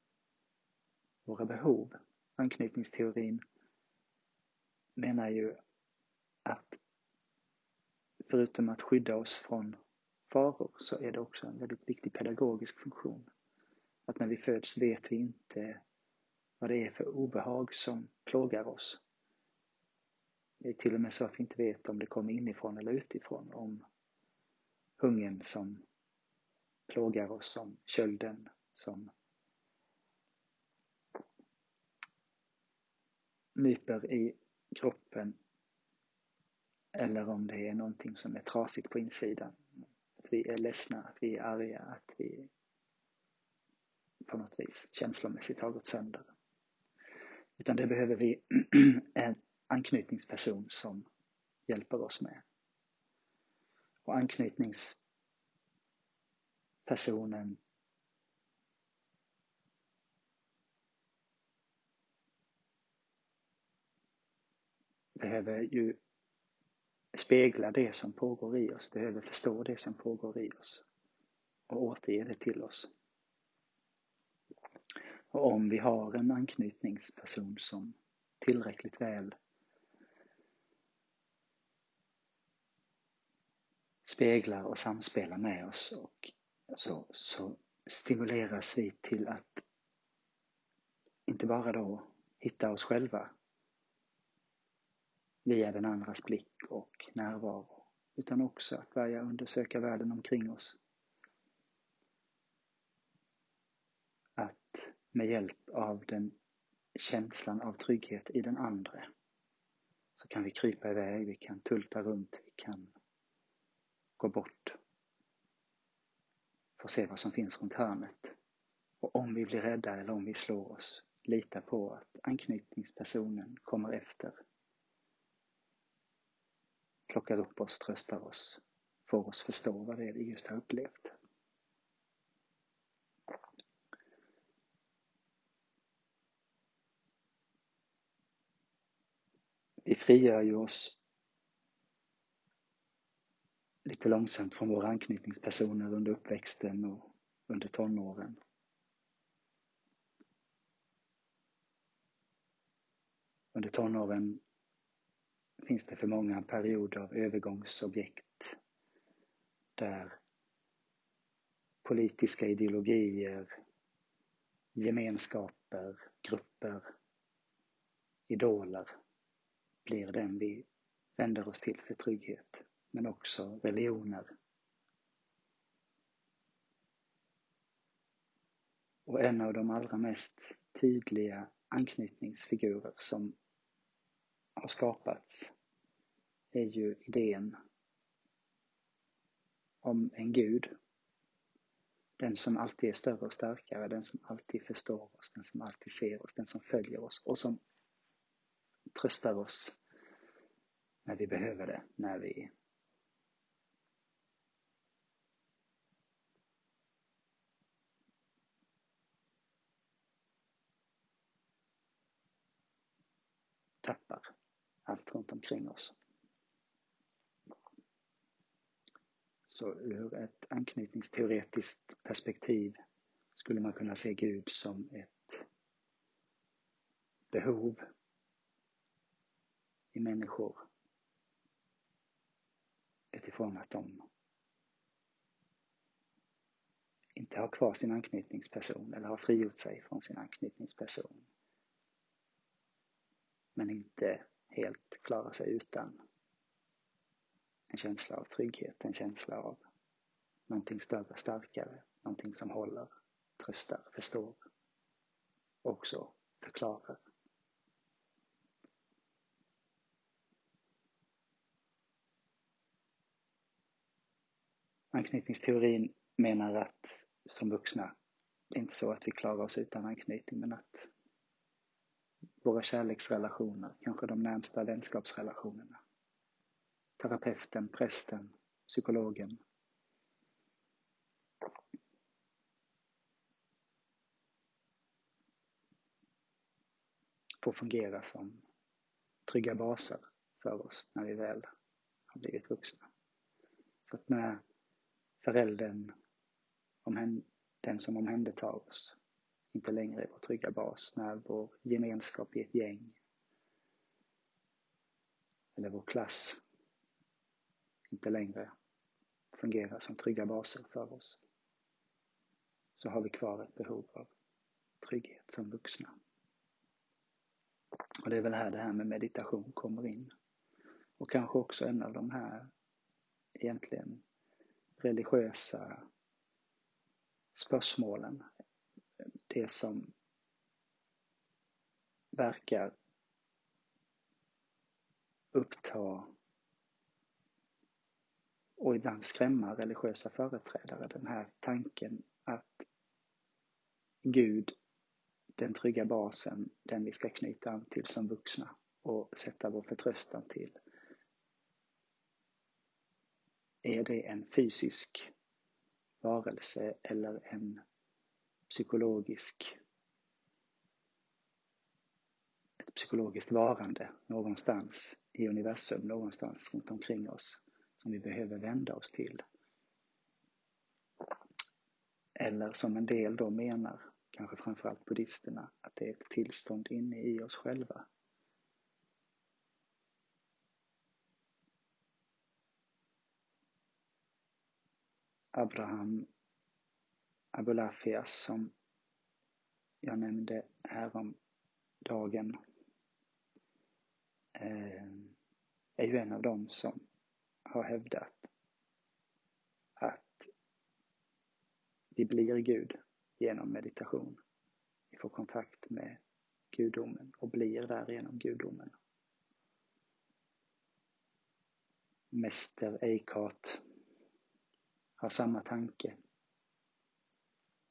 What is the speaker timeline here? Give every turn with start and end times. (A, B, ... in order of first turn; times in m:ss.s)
0:01.2-0:03.4 A
0:05.0-0:05.6 A
0:06.4-0:06.8 A
0:08.3-0:13.3 A
0:14.1-0:15.8 A
0:16.6-0:19.0 A
0:20.6-0:23.8 A
0:25.0-0:25.8 A
0:26.9-0:29.1 A
0:33.6-0:35.4 A
0:36.9-0:39.6 A
0:40.2-0:42.5 A
0:44.2-0:46.3 A
0:47.6-0:51.1 A
0:51.7-0:52.4 A
0:54.0-0:55.0 A
0:56.8-0:57.6 A
1:05.2-1:06.0 A
1:07.1-1:10.8 A
1:11.7-1:12.9 A
1:15.3-1:19.4 A
1:24.0-1:29.6 A
1:31.3-1:33.3 A
1:35.4-1:40.8 A
1:44.4-1:46.4 A
1:46.9-1:49.1 A
1:50.2-1:52.9 A
1:54.2-1:54.8 A
1:56.8-1:58.4 A
1:59.0-2:04.3 A
2:07.1-2:11.1 A
2:19.8-2:21.0 A
2:23.8-2:28.4 A
2:33.5-2:34.4 A
2:35.6-2:38.6 A
2:39.8-2:40.2 A
2:41.8-2:43.5 A
2:44.7-2:46.9 A
2:48.3-2:48.9 A
2:49.8-2:54.3 A
2:59.0-3:03.4 A
3:04.6-3:05.5 A
3:06.5-3:07.6 A
3:09.8-3:10.7 A
3:12.2-3:17.6 A
3:18.9-3:19.8 A
3:21.0-3:22.5 A
3:33.8-3:34.3 A
3:34.8-3:35.9 A
3:39.5-3:42.8 A
3:43.4-3:45.4 A
3:47.3-3:47.8 A
3:49.9-3:50.6 A
3:53.1-3:54.0 A
3:57.2-4:01.2 A
4:03.5-4:06.0 A
4:07.7-4:09.6 A
4:10.5-4:14.4 A
4:15.6-4:17.0 A
4:24.9-4:28.0 A
4:28.5-4:30.9 A
4:32.4-4:35.8 A
4:37.0-4:39.4 A
4:47.4-4:48.4 A
4:49.3-4:51.4 A
4:52.1-4:52.8 A
4:53.9-4:54.4 A
4:55.2-4:55.9 A
4:56.8-4:59.0 A
4:59.5-5:03.0 A
5:05.6-5:06.4 A
5:07.9-5:08.5 A
5:09.3-5:11.2 A
5:12.8-5:14.1 A
5:14.8-5:15.9 A
5:18.0-5:20.1 A
5:21.0-5:22.5 A
5:23.4-5:24.0 A
5:24.8-5:25.8 A
5:27.3-5:28.2 A
5:29.3-5:29.9 A
5:32.1-5:32.8 A
5:35.3-5:36.1 A
5:38.6-5:42.6 A
5:44.0-5:44.5 A
5:45.4-5:50.6 A
5:53.6-5:55.1 A
5:56.0-5:57.6 A
5:58.5-5:59.6 A
6:02.6-6:09.2 A
6:12.2-6:17.9 A
6:25.3-6:26.1 A
6:27.3-6:28.5 A
6:29.8-6:31.2 A
6:31.8-6:32.4 A
6:34.3-6:35.1 A
6:35.8-6:36.8 A
6:37.5-6:38.3 A
6:39.8-6:40.3 A
6:41.9-6:44.2 A
6:44.9-6:46.0 A
6:46.5-6:48.7 A
6:52.1-6:53.6 A
6:55.0-6:56.0 A